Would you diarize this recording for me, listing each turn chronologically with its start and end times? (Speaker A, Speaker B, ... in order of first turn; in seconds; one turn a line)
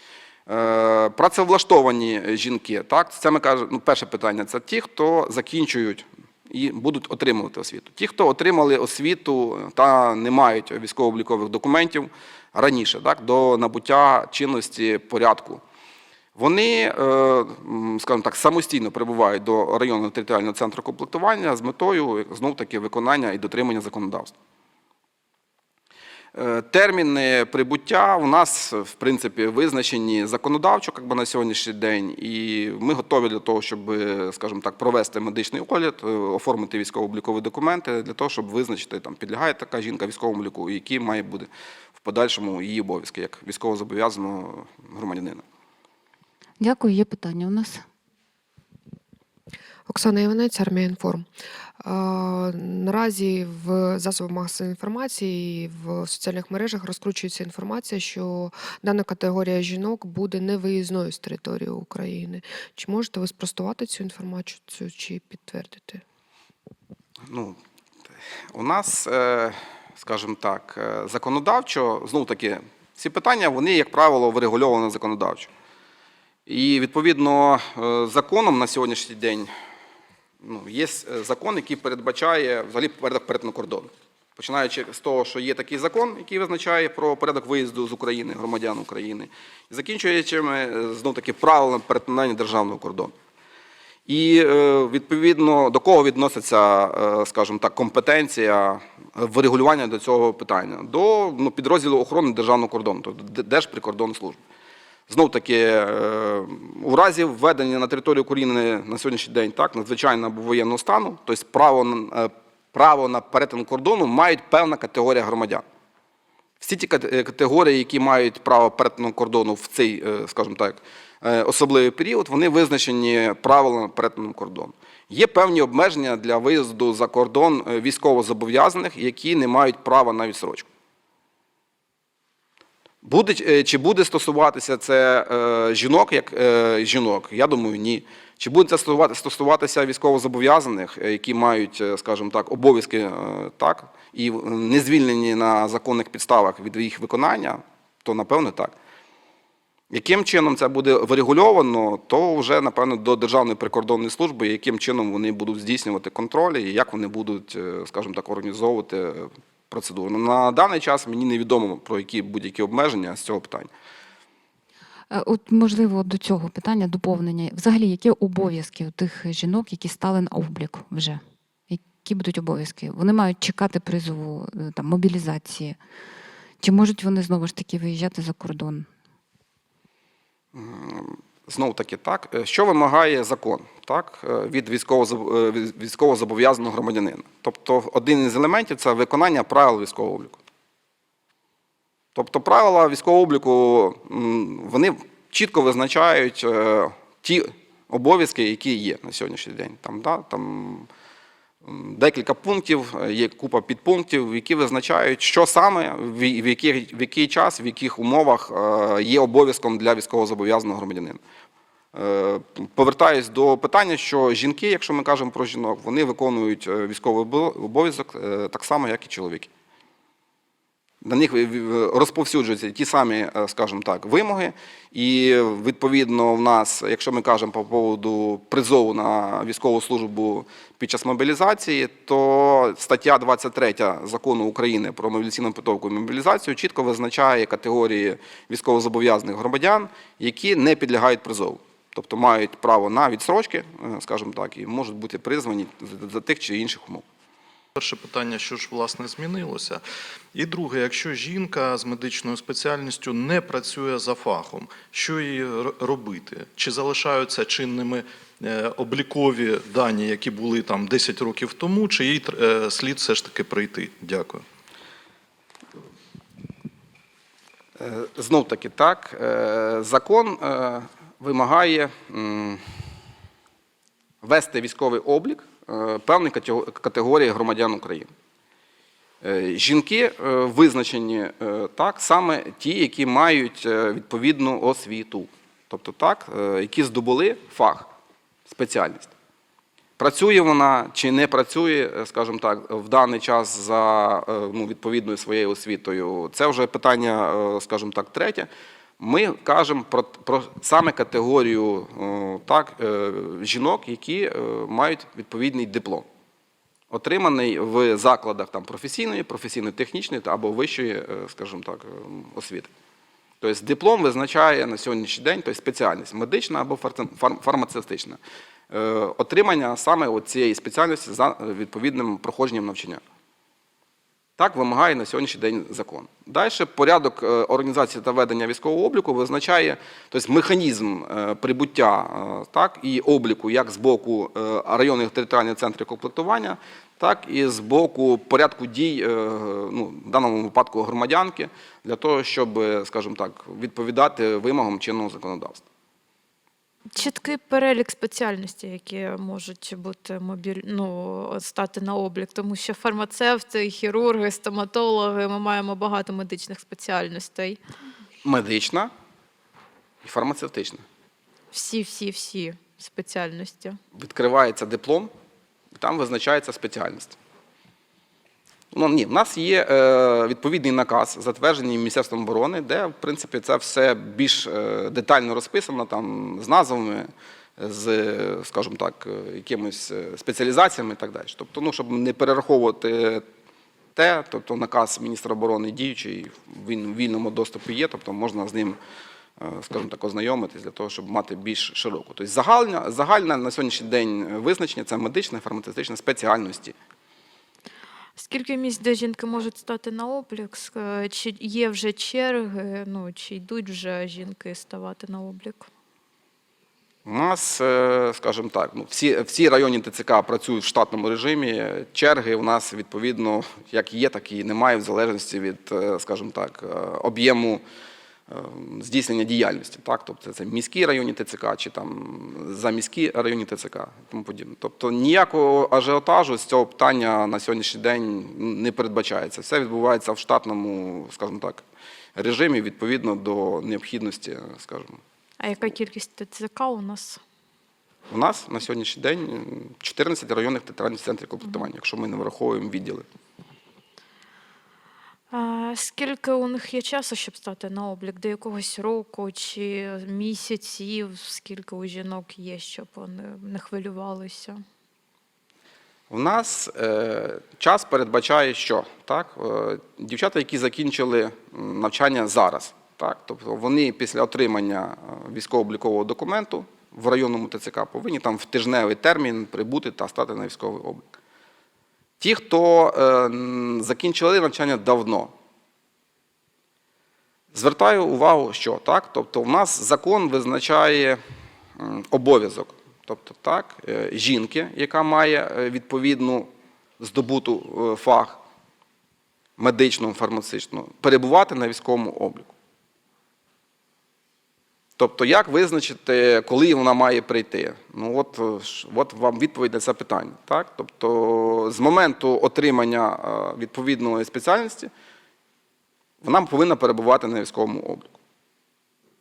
Speaker A: 0.5-15.6
Speaker A: 16.4-24.3
Speaker A: 26.3-45.4
Speaker B: 46.6-47.8
Speaker C: 49.9-51.3
Speaker C: 51.8-66.0
Speaker A: 67.2-67.6
Speaker A: 68.5-75.5
Speaker A: 76.5-79.5
Speaker A: 80.4-93.1
Speaker A: 94.1-104.4
Speaker A: 105.1-115.6
Speaker A: 116.6-130.7
Speaker A: 133.0-148.8
Speaker A: 149.9-163.7
Speaker B: 165.1-175.8
Speaker B: 176.6-178.9
Speaker A: 180.5-190.4
Speaker A: 192.1-200.9
Speaker A: 201.6-211.2
Speaker A: 211.9-219.5
Speaker A: 221.0-247.0
Speaker D: 247.8-249.8
Speaker D: 250.3-264.4
Speaker A: 267.8-272.6
Speaker A: 274.2-278.1
Speaker A: 279.2-287.9
Speaker A: 288.5-289.1
Speaker A: 290.0-298.5
Speaker A: 299.0-306.1
Speaker A: 306.9-312.7
Speaker A: 313.4-318.2
Speaker A: 318.7-323.0
Speaker A: 324.4-345.6
Speaker E: 346.9-357.6
Speaker A: 358.2-358.9
Speaker A: 360.0-360.8
Speaker E: 361.5-363.8
Speaker A: 363.9-365.1
Speaker A: 365.8-367.1
Speaker A: 368.7-383.2
Speaker A: 383.9-388.8
Speaker A: 389.4-396.8
Speaker E: 398.1-405.7
Speaker A: 407.0-417.6
Speaker A: 418.3-431.6
Speaker A: 432.1-435.0
Speaker E: 435.4-437.2
Speaker A: 438.1-443.1
Speaker E: 445.3-454.6
Speaker A: 456.1-471.1
Speaker A: 472.2-475.3
Speaker A: 477.5-481.2
Speaker A: 481.8-486.5
Speaker A: 487.0-488.4
Speaker A: 489.6-492.5
Speaker A: 495.0-504.9
Speaker A: 506.2-508.1